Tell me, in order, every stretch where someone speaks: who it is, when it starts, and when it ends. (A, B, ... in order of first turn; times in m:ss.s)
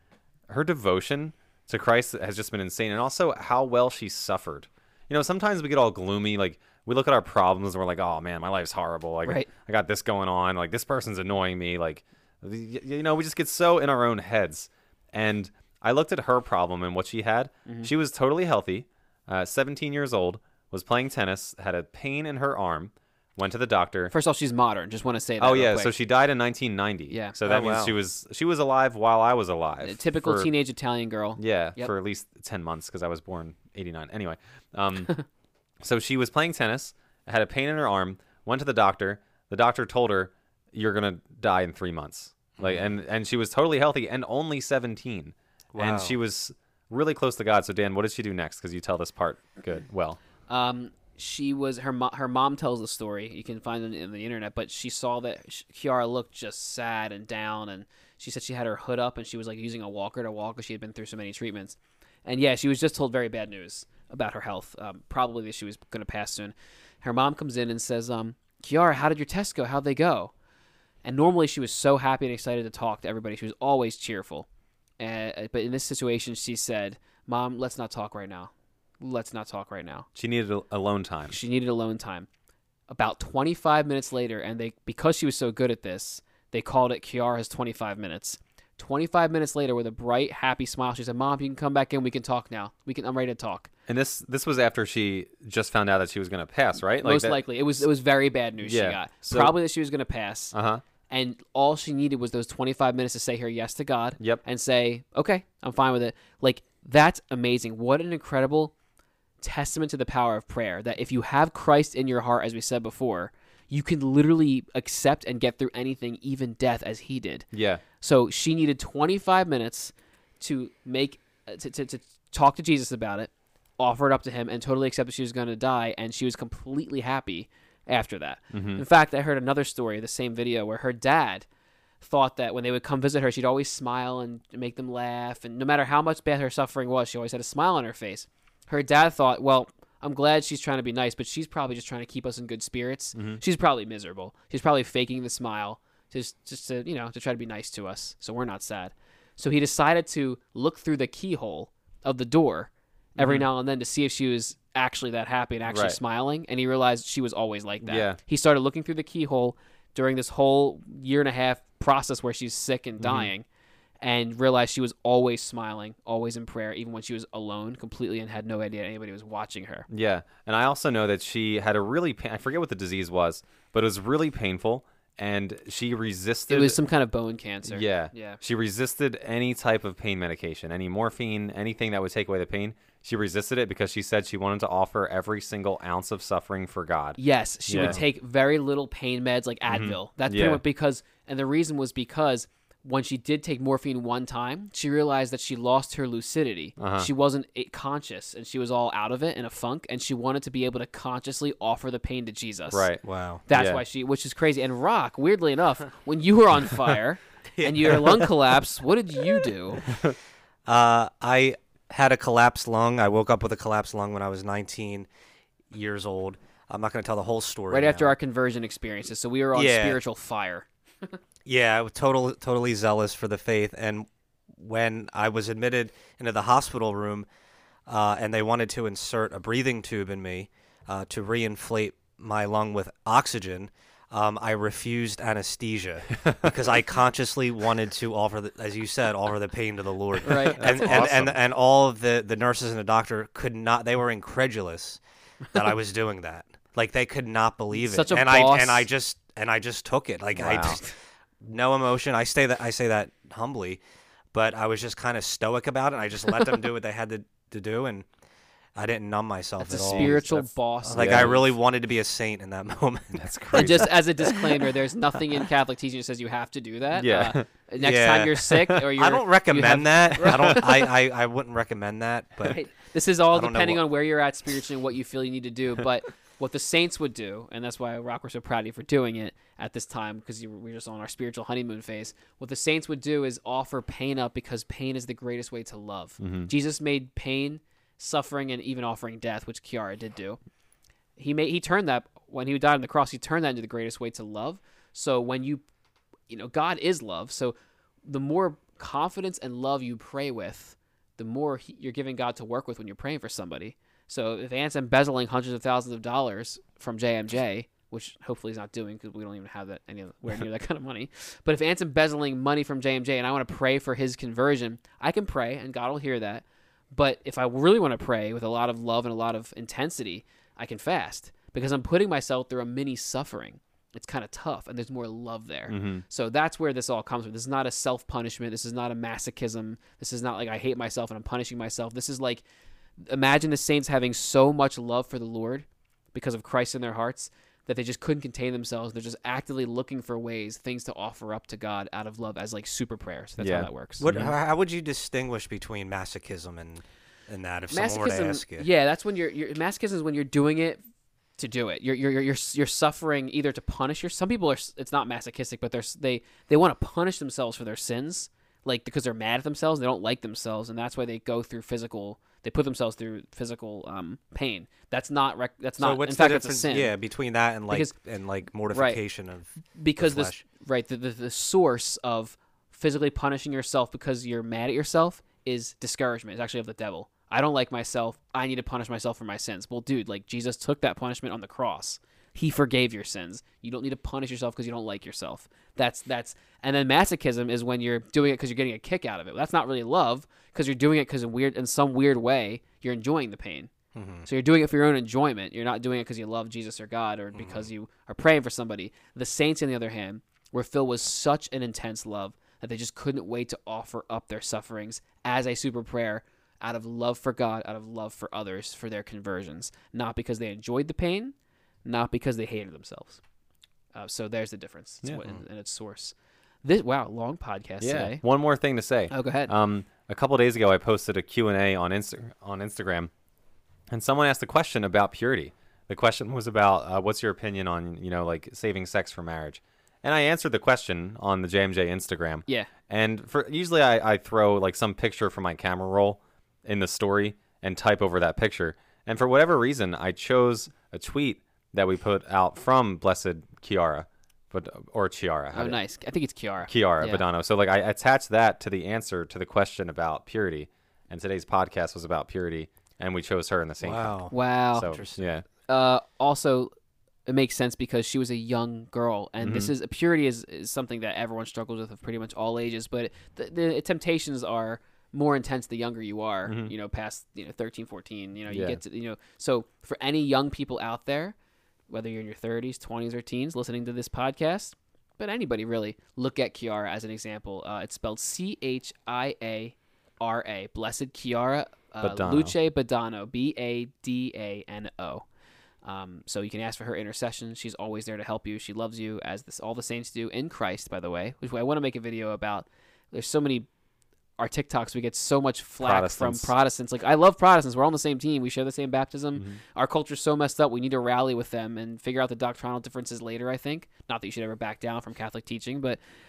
0:00.5-0:24.1 A
0:24.1-0:25.9 B
0:25.4-0:30.5 A
0:27.1-0:27.3 B
0:27.4-0:28.0 C
0:29.8-0:31.9 B
0:31.4-0:35.2 A
0:35.8-0:50.2 A
0:42.6-0:42.8 C
0:45.7-0:46.2 C
0:50.5-1:10.3 B
1:11.0-1:14.5 B
1:15.0-1:20.1 B
1:20.1-1:21.4 A
1:21.3-1:22.3 B
1:22.9-1:33.7 B
1:33.9-1:37.4 A
1:37.0-1:40.5 B
1:38.6-1:39.5 A
1:40.5-1:40.8 A
1:41.1-1:48.7 B
1:49.4-1:57.4 B
1:57.5-1:57.8 A
1:58.0-2:11.4 B
2:08.5-2:08.8 A
2:12.0-2:43.4 B
2:23.1-2:23.4 A
2:33.2-2:33.5 A
2:35.7-2:36.0 A
2:37.8-2:38.2 A
2:43.0-2:43.3 A
2:44.0-2:49.8 B
2:49.9-2:56.8 A
2:56.5-2:58.4 B
2:57.7-3:08.0 A
3:07.2-3:22.9 B
3:09.7-3:10.6 A
3:16.8-3:17.1 A
3:22.7-3:23.8 A
3:23.0-3:23.4 C
3:23.5-3:29.9 B
3:27.6-3:28.3 C
3:30.6-3:35.1 C
3:35.7-3:38.2 C
3:37.7-3:41.2 B
3:39.6-3:40.0 C
3:41.4-3:47.3 C
3:47.9-4:05.0 C
4:00.2-4:01.1 B
4:00.6-4:01.4 A
4:05.5-4:13.8 C
4:07.7-4:08.8 B
4:10.4-4:10.8 A
4:14.3-4:18.1 C
4:18.7-4:20.2 C
4:19.6-4:21.5 B
4:19.8-4:20.4 A
4:20.8-4:23.9 C
4:21.0-4:21.4 A
4:23.2-4:24.0 A
4:23.5-4:30.9 B
4:27.0-4:27.4 A
4:27.8-4:32.6 C
4:32.4-4:50.4 B
4:33.3-4:33.8 C
4:46.2-4:46.5 A
4:51.2-4:55.6 B
4:56.3-5:32.4 B
5:25.7-5:26.0 A
5:33.0-5:44.3 B
5:43.4-5:44.3 A
5:44.0-5:48.7 C
5:47.7-5:50.8 B
5:51.4-6:06.9 B
6:05.8-6:10.4 C
6:07.7-6:07.9 B
6:08.7-6:09.0 B
6:09.7-6:33.7 B
6:33.9-6:34.3 C
6:34.2-6:53.2 B
6:37.3-6:37.7 C
6:53.9-6:58.2 B
6:57.8-7:03.1 A
6:59.1-6:59.5 B
7:03.9-7:25.8 A
7:25.5-7:27.2 B
7:26.7-7:34.2 A
7:33.8-7:35.2 C
7:34.3-7:34.9 B
7:34.7-7:35.4 A
7:35.7-7:36.7 B
7:37.2-7:51.4 B
7:39.4-7:39.7 A
7:46.4-7:46.7 A
7:48.5-7:48.8 A
7:51.9-8:05.2 B
8:02.0-8:02.5 A
8:05.8-8:13.7 B
8:14.4-8:26.0 B
8:15.8-8:16.5 A
8:19.4-8:19.6 A